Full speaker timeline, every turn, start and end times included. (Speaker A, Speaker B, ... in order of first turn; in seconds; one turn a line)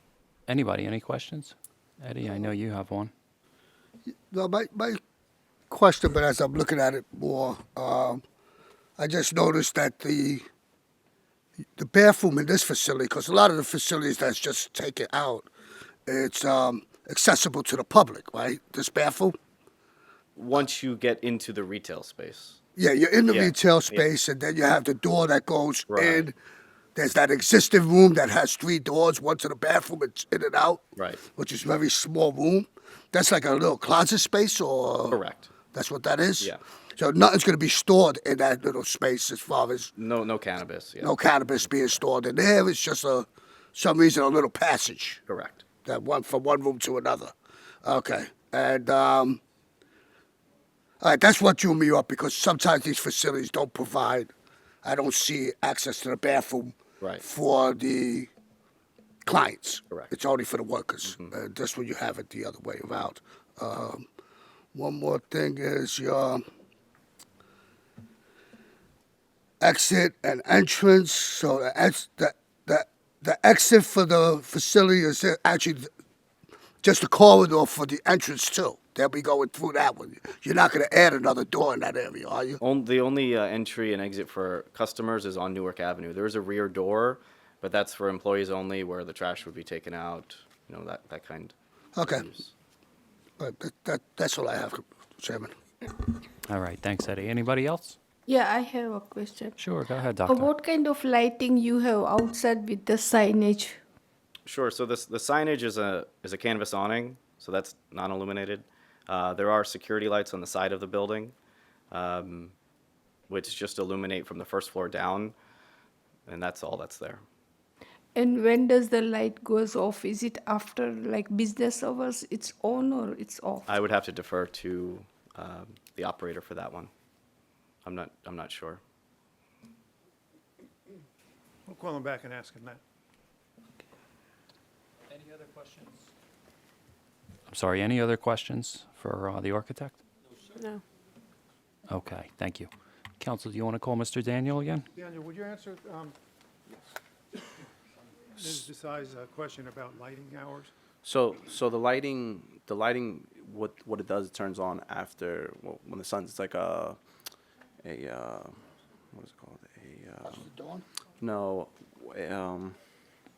Speaker A: 0.5-3.1
Speaker B: 4.3-5.0
Speaker B: 5.7-8.2
Speaker B: 9.0-10.4
Speaker B: 11.8-15.5
Speaker B: 16.1-19.4
Speaker C: 20.4-22.6
Speaker B: 22.8-26.3
Speaker C: 23.3-24.1
Speaker C: 25.9-26.3
Speaker B: 26.9-35.2
Speaker C: 30.9-31.2
Speaker C: 35.1-35.5
Speaker B: 35.7-39.9
Speaker C: 40.0-41.1
Speaker B: 41.0-45.2
Speaker C: 45.3-45.6
Speaker B: 45.8-47.3
Speaker B: 47.8-49.4
Speaker B: 51.0-54.3
Speaker B: 54.8-58.3
Speaker B: 59.2-64.0
Speaker B: 64.7-66.4
Speaker B: 69.6-75.9
Speaker B: 76.8-82.6
Speaker C: 82.6-92.5
Speaker B: 92.0-92.2
Speaker B: 93.4-95.5
Speaker A: 96.5-98.0
Speaker D: 98.2-99.6
Speaker A: 99.6-100.5
Speaker D: 100.2-103.8
Speaker C: 104.5-111.3
Speaker C: 111.9-112.5
Speaker C: 113.3-115.3
Speaker C: 116.3-117.2
Speaker D: 118.1-123.7
Speaker C: 123.7-126.9
Speaker C: 127.8-128.8
Speaker E: 131.7-132.8
Speaker A: 135.4-135.7
Speaker A: 137.5-140.0
Speaker A: 141.9-144.9
Speaker E: 144.9-146.1
Speaker E: 148.4-150.7
Speaker F: 151.0-157.0
Speaker F: 157.8-158.6
Speaker F: 159.1-160.4
Speaker B: 160.3-160.8
Speaker F: 161.2-162.8